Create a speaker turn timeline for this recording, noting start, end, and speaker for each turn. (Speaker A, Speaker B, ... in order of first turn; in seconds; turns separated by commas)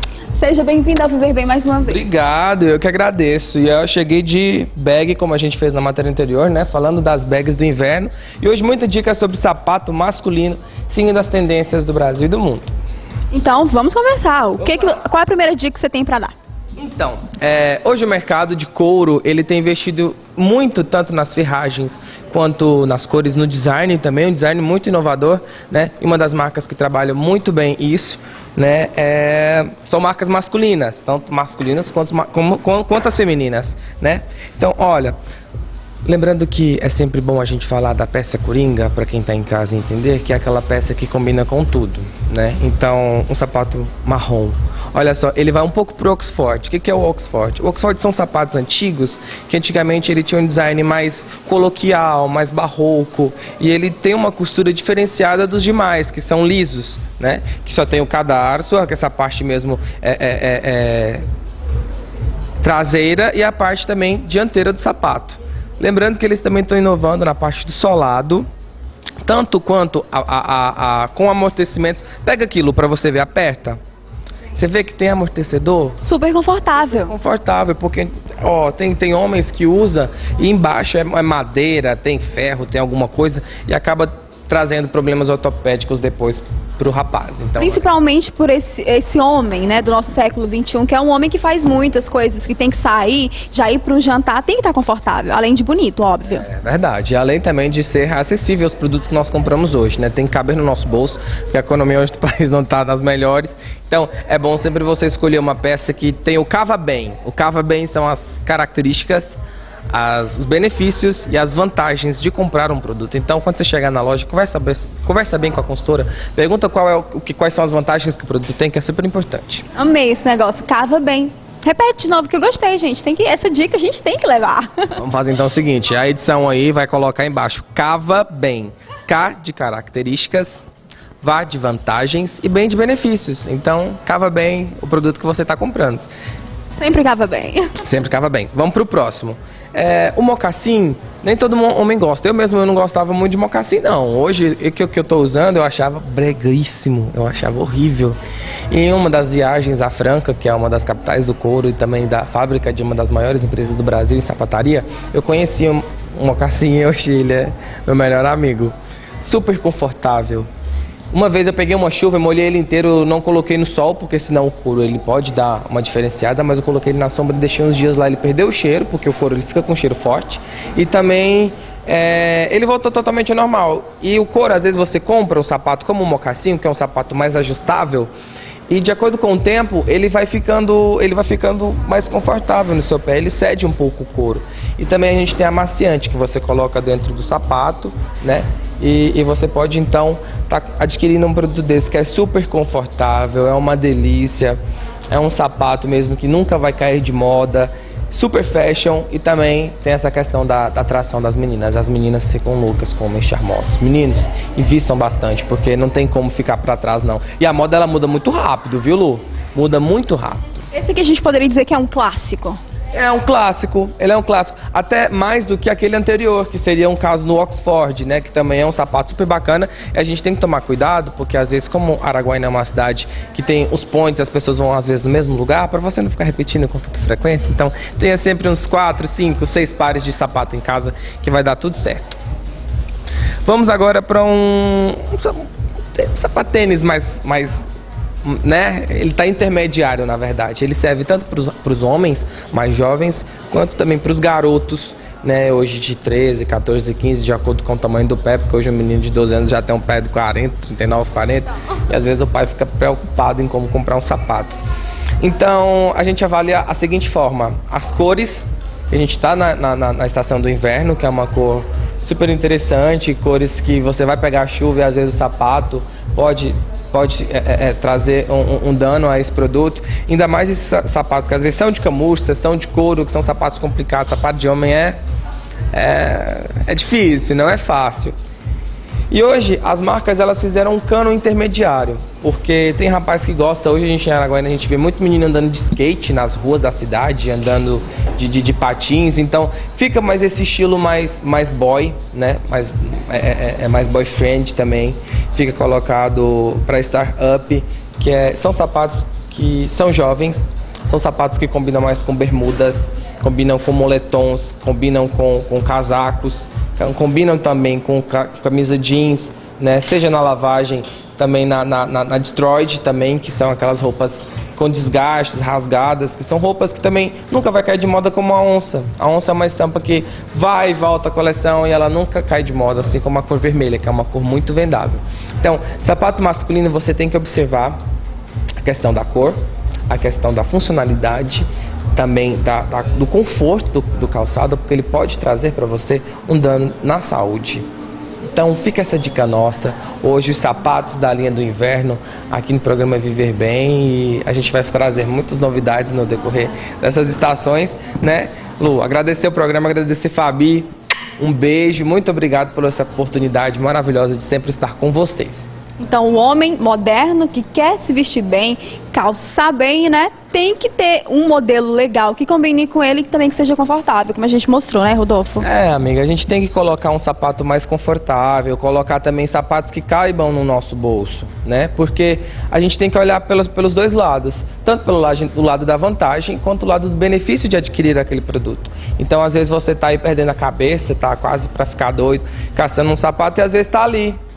Speaker A: 0.4-2.1, Speaker B: 1.9-12.7, Speaker A: 13.3-16.4, Speaker B: 14.6-15.0, Speaker B: 16.8-35.2, Speaker B: 36.1-61.2, Speaker B: 62.6-68.5, Speaker B: 69.2-73.8, Speaker B: 74.5-76.0, Speaker A: 76.0-77.1, Speaker B: 77.0-87.8, Speaker A: 87.6-96.5, Speaker B: 96.4-109.4, Speaker B: 109.9-119.6, Speaker A: 119.8-125.0, Speaker B: 125.0-130.6, Speaker B: 131.2-136.1, Speaker A: 136.8-137.8, Speaker B: 137.8-148.2, Speaker B: 148.7-160.5, Speaker B: 161.1-178.1, Speaker B: 178.7-194.6, Speaker B: 195.1-210.6, Speaker A: 210.7-212.6, Speaker B: 212.9-232.2, Speaker B: 233.4-237.7, Speaker B: 238.2-254.6, Speaker B: 255.2-275.0, Speaker B: 275.7-278.1, Speaker B: 279.1-327.8, Speaker B: 328.6-329.4, Speaker B: 329.9-337.6, Speaker B: 338.3-350.7, Speaker B: 351.2-355.5, Speaker A: 355.8-365.5, Speaker B: 365.4-384.2